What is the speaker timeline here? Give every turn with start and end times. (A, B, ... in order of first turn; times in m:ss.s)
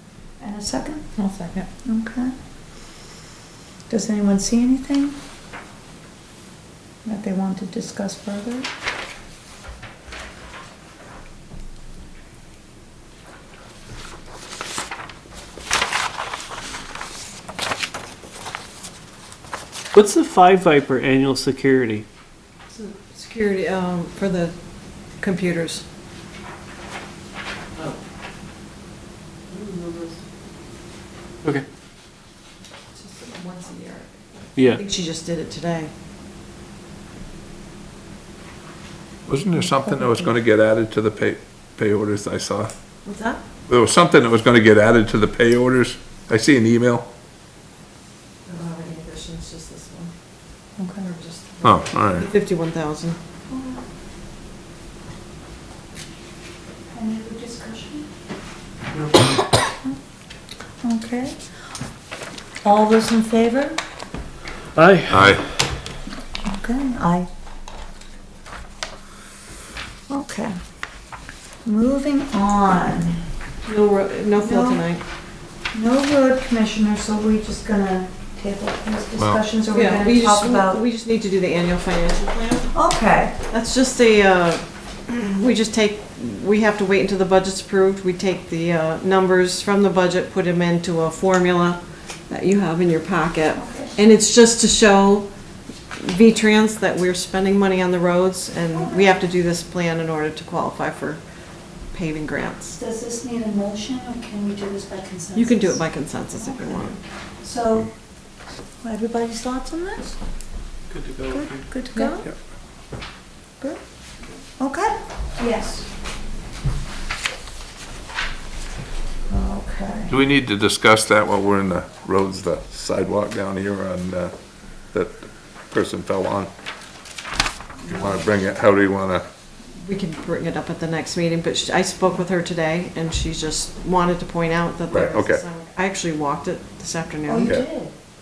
0:00.4-0:02.3 A
0:03.9-0:05.2 A
0:07.0-0:08.7 A
0:19.9-0:22.0 B
0:22.7-0:24.5 C
0:25.2-0:25.8 C
0:29.5-0:30.1 C
0:33.0-0:35.9 C
0:34.6-0:34.8 B
0:39.3-0:42.7 D
0:39.5-0:40.3 A
0:43.0-0:43.4 C
0:43.7-0:47.1 D
0:48.5-0:50.1 C
0:50.8-0:51.1 A
0:51.0-0:53.2 C
0:51.6-0:52.3 D
0:53.5-0:53.8 A
0:56.9-0:58.0 A
1:00.8-1:01.4 A
1:02.6-1:03.8 A
1:04.7-1:05.4 B
1:05.1-1:05.4 D
1:06.4-1:07.3 A
1:10.1-1:10.6 A
1:11.6-1:13.2 A
1:13.6-1:15.0 C
1:14.4-1:14.8 A
1:15.7-1:20.8 A
1:19.7-1:22.7 C
1:22.7-1:23.3 A
1:23.5-1:35.3 C
1:33.6-1:33.9 A
1:36.0-1:41.2 C
1:38.7-1:39.1 A
1:41.9-1:42.7 C
1:42.7-1:45.8 A
1:45.3-1:47.0 C
1:46.4-1:47.9 A
1:48.8-1:50.2 A
1:50.9-1:51.7 B
1:51.3-1:52.2 A
1:54.6-1:55.8 A
1:59.3-2:00.2 A
2:00.1-2:04.3 D
2:04.9-2:06.5 D
2:07.9-2:09.2 D
2:09.8-2:17.6 C
2:14.9-2:15.4 D
2:17.2-2:18.0 A